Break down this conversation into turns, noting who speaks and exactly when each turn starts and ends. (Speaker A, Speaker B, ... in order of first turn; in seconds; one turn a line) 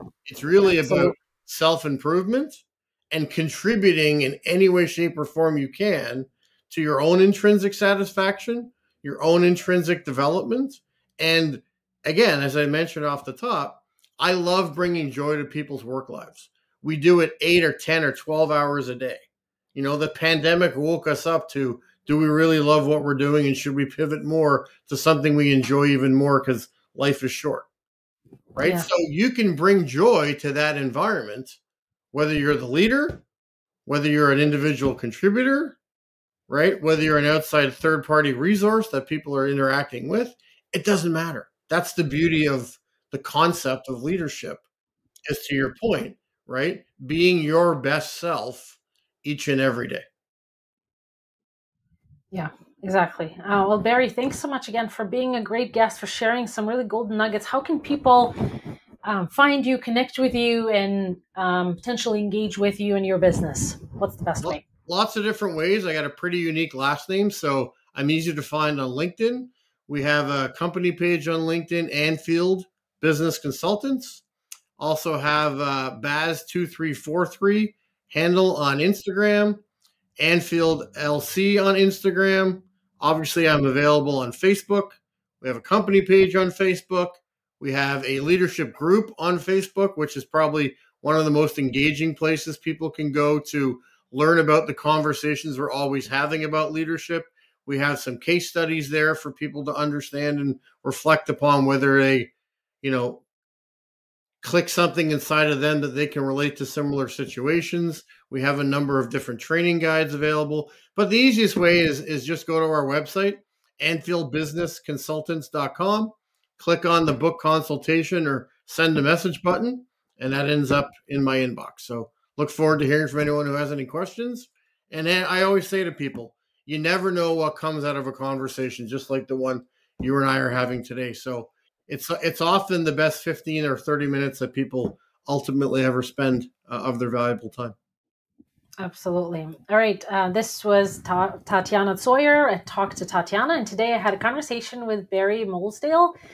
Speaker A: 0.2-27.6
Speaker B: 0.6-1.1
Speaker A: 28.5-31.6
Speaker A: 32.1-33.2
Speaker A: 33.9-35.8
Speaker A: 36.5-44.6
Speaker A: 45.2-50.0
Speaker B: 52.3-58.3
Speaker B: 59.0-64.6
Speaker A: 64.4-74.2
Speaker A: 74.8-79.6
Speaker A: 80.2-103.2
Speaker A: 104.4-137.7
Speaker B: 138.8-146.1